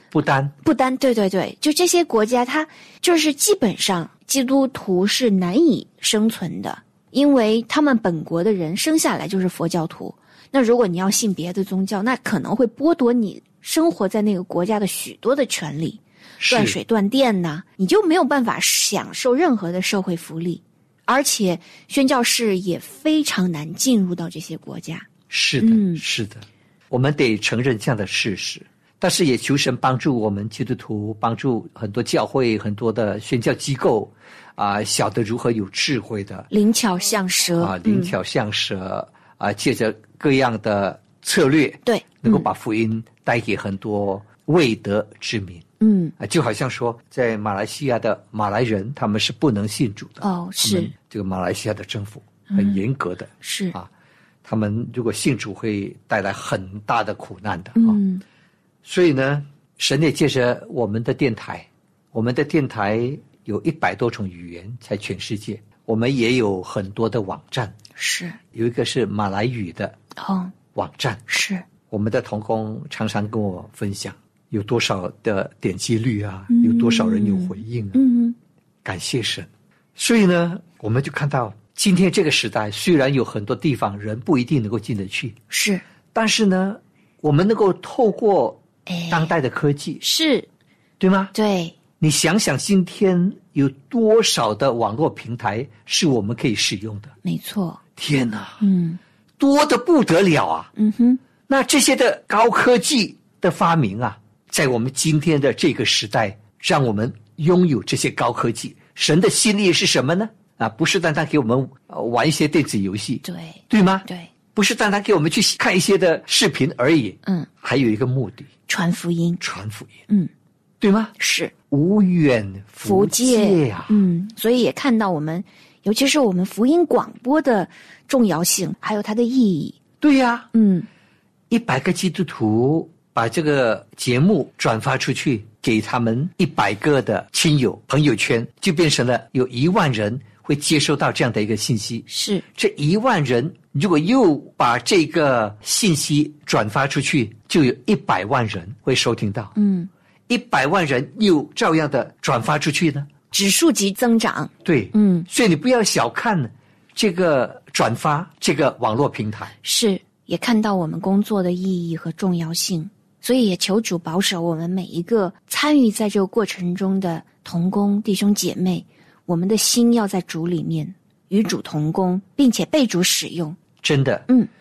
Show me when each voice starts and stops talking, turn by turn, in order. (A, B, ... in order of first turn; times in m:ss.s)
0:00.1-0:00.5 A
0:00.6-0:25.1 B
0:16.4-0:16.8 A
0:25.3-0:36.5 A
0:25.6-0:26.0 B
0:36.5-0:38.1 B
0:37.6-0:45.6 A
0:41.8-0:42.5 B
0:45.8-0:46.1 B
0:46.2-0:53.9 A
0:50.2-0:50.9 B
0:52.5-0:52.8 B
0:53.4-0:53.7 B
0:54.4-0:58.0 A
0:57.7-0:58.2 B
0:58.8-1:07.7 A
1:08.0-1:08.4 B
1:08.5-1:10.0 A
1:10.2-1:10.5 B
1:10.7-1:11.2 A
1:11.3-1:11.6 B
1:11.9-1:18.0 A
1:16.5-1:18.4 B
1:18.8-1:25.3 A
1:25.5-1:25.8 B
1:26.1-1:30.0 A
1:28.9-1:29.3 B
1:30.0-1:30.5 B
1:31.0-1:31.3 A
1:31.3-1:31.8 B
1:32.0-1:37.1 A
1:37.2-1:37.8 B
1:38.0-1:38.6 A
1:38.6-1:39.0 B
1:39.4-1:40.7 A
1:40.8-1:41.2 B
1:41.5-1:58.5 A
1:53.2-1:54.3 B
1:58.7-1:59.4 B
1:59.4-2:00.0 A
2:00.8-2:01.1 A
2:01.2-2:01.5 B
2:01.7-2:04.0 A
2:02.8-2:09.8 B
2:10.0-2:10.5 A
2:10.5-2:10.9 B
2:11.5-2:29.5 A
2:22.1-2:22.4 B
2:29.6-2:29.9 B
2:30.3-2:33.1 A
2:33.3-2:35.3 B
2:34.6-2:39.5 A
2:39.6-2:53.6 B
2:53.8-2:54.2 A